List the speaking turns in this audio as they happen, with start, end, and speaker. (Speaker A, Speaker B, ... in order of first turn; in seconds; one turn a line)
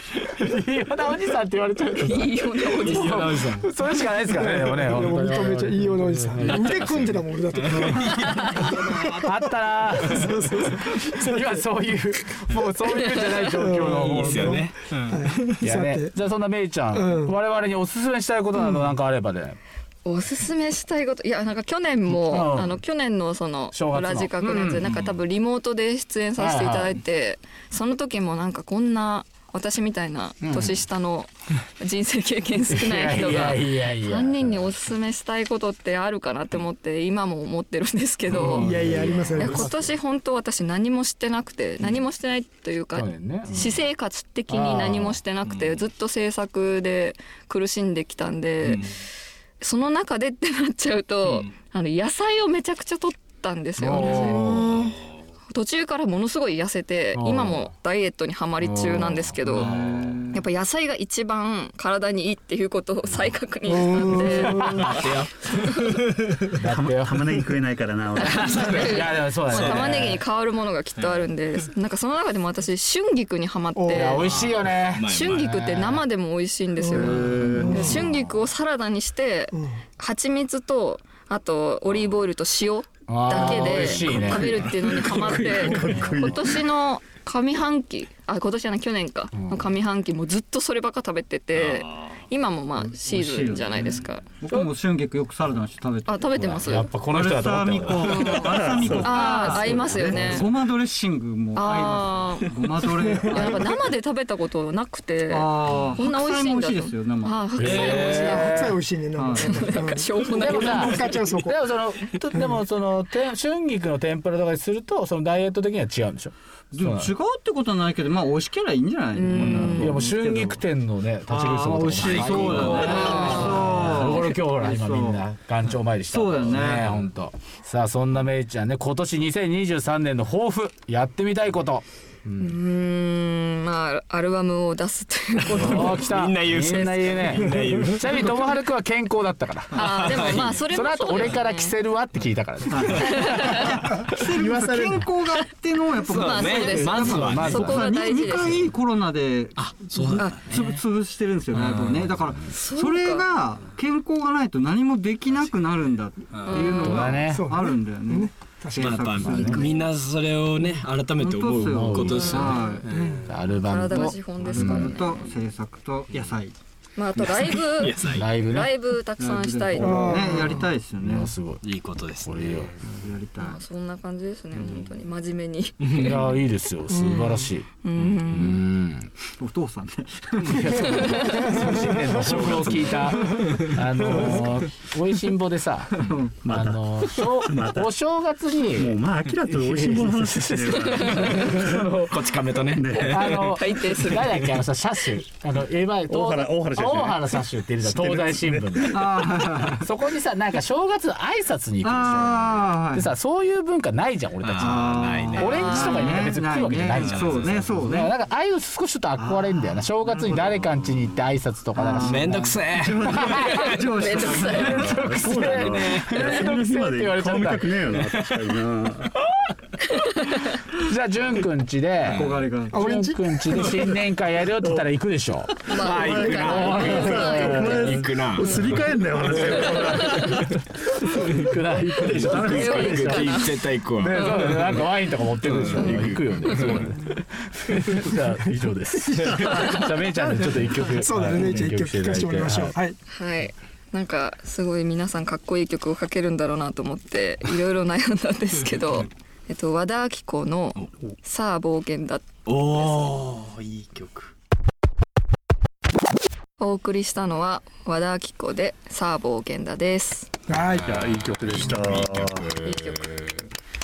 Speaker A: 0.3-14.7
Speaker B: 2.0-3.3
Speaker C: 2.8-3.7
Speaker D: 4.3-11.6
Speaker C: 6.4-6.8
Speaker C: 7.8-8.5
Speaker B: 8.2-8.5
Speaker B: 12.9-13.6
Speaker D: 13.4-16.1
Speaker C: 13.9-15.4
Speaker A: 15.6-19.6
Speaker D: 16.9-17.3
Speaker B: 20.1-48.9
Speaker A: 22.1-22.8
Speaker A: 23.7-24.8
Speaker C: 24.9-25.2
Speaker A: 26.4-27.0
Speaker A: 30.4-30.8
Speaker A: 32.7-34.7
Speaker A: 38.3-39.9
Speaker D: 38.5-39.8
Speaker A: 43.0-43.9
Speaker A: 44.5-45.2
Speaker C: 48.6-48.9
Speaker B: 49.6-54.9
Speaker A: 53.8-54.8
Speaker D: 54.3-54.6
Speaker B: 55.5-59.7
Speaker A: 57.1-57.7
Speaker A: 58.6-59.7
Speaker C: 59.5-60.2
Speaker E: 59.6-60.3
Speaker B: 60.3-64.7
Speaker D: 63.7-65.0
Speaker A: 64.6-65.1
Speaker C: 64.9-66.2
Speaker B: 65.5-66.0
Speaker A: 66.6-67.5
Speaker F: 66.6-68.9
Speaker B: 68.2-74.3
Speaker A: 68.4-70.2
Speaker C: 68.4-68.9
Speaker C: 69.5-70.2
Speaker C: 71.0-71.3
Speaker D: 73.8-74.2
Speaker A: 73.9-76.0
Speaker C: 74.2-75.7
Speaker B: 75.0-94.7
Speaker D: 76.8-78.0
Speaker F: 77.0-78.0
Speaker A: 77.8-78.4
Speaker A: 83.1-84.7
Speaker C: 83.7-85.8
Speaker F: 85.4-86.7
Speaker A: 85.8-86.2
Speaker A: 89.3-89.7
Speaker E: 92.8-103.6
Speaker B: 96.1-96.9
Speaker A: 96.4-98.3
Speaker B: 98.0-100.5
Speaker F: 98.4-100.3
Speaker B: 101.5-102.5
Speaker B: 103.3-108.7
Speaker E: 105.3-107.4
Speaker C: 107.6-108.7
Speaker A: 107.6-108.8
Speaker D: 107.7-111.6
Speaker E: 109.2-109.8
Speaker B: 109.4-111.2
Speaker A: 110.3-117.1
Speaker E: 116.7-120.6
Speaker B: 119.1-120.0
Speaker C: 119.4-119.7
Speaker A: 119.5-132.6
Speaker E: 121.3-125.2
Speaker C: 122.0-123.3
Speaker B: 122.8-124.2
Speaker E: 126.1-127.0
Speaker B: 132.4-136.1
Speaker C: 135.4-138.4
Speaker A: 135.5-139.9
Speaker B: 136.7-137.4
Speaker B: 139.7-141.8
Speaker C: 139.8-140.7
Speaker A: 140.6-143.7
Speaker E: 142.7-143.5
Speaker B: 143.1-143.8
Speaker D: 143.9-145.1
Speaker E: 144.1-159.5
Speaker B: 146.1-148.7
Speaker C: 146.1-147.8
Speaker A: 147.1-147.9
Speaker C: 149.6-150.4
Speaker B: 150.1-150.6
Speaker C: 151.5-152.1
Speaker B: 152.5-153.2
Speaker B: 156.5-157.2
Speaker A: 156.8-157.5
Speaker D: 157.3-159.5
Speaker C: 158.8-163.2
Speaker A: 159.3-159.6
Speaker B: 159.3-159.9
Speaker E: 161.2-162.9
Speaker A: 161.6-162.5
Speaker B: 162.1-162.8
Speaker D: 162.9-163.2
Speaker A: 163.2-165.0
Speaker B: 163.5-165.3
Speaker E: 164.4-166.6
Speaker B: 167.0-170.4
Speaker C: 167.3-168.3
Speaker A: 168.1-168.7
Speaker E: 169.2-171.3
Speaker D: 169.8-170.7
Speaker A: 171.0-171.6
Speaker C: 171.6-172.9
Speaker A: 172.2-172.7
Speaker E: 173.0-173.6
Speaker B: 173.4-176.3
Speaker C: 175.8-176.1
Speaker A: 175.9-177.7
Speaker D: 176.9-177.5
Speaker B: 177.8-178.6
Speaker C: 178.0-178.3
Speaker A: 178.3-179.1
Speaker E: 179.4-180.8
Speaker A: 180.4-191.8
Speaker B: 180.8-181.5
Speaker D: 181.4-182.7
Speaker C: 182.1-183.7
Speaker D: 184.1-184.4
Speaker E: 186.0-186.3
Speaker F: 186.4-187.9
Speaker F: 188.7-191.9
Speaker C: 191.5-193.5
Speaker F: 192.7-193.6
Speaker A: 193.0-212.6
Speaker B: 193.6-195.1
Speaker F: 196.1-199.2
Speaker E: 198.9-199.8
Speaker E: 201.8-203.1
Speaker C: 204.4-205.7
Speaker E: 204.6-208.1
Speaker B: 205.6-206.3
Speaker C: 207.0-207.7
Speaker F: 209.2-211.1
Speaker E: 211.8-214.9
Speaker C: 212.0-213.6
Speaker A: 213.1-213.6
Speaker B: 213.6-214.9
Speaker A: 214.6-218.0
Speaker F: 214.6-219.1
Speaker C: 218.1-218.4
Speaker B: 219.9-220.6
Speaker A: 220.8-225.7
Speaker E: 222.1-222.8
Speaker D: 222.7-223.9
Speaker B: 225.7-228.7
Speaker F: 225.7-230.5
Speaker C: 225.8-228.8
Speaker A: 226.4-227.9
Speaker B: 229.4-230.4
Speaker A: 231.3-242.8
Speaker F: 232.0-233.1
Speaker C: 232.2-234.8
Speaker B: 232.4-233.6
Speaker C: 235.4-236.8
Speaker B: 235.7-236.8
Speaker D: 239.0-243.0
Speaker F: 239.2-239.8
Speaker B: 243.1-252.9
Speaker C: 252.5-254.3
Speaker B: 256.6-260.3
Speaker D: 260.5-261.0
Speaker F: 260.8-262.6
Speaker C: 261.0-263.3
Speaker B: 262.6-263.1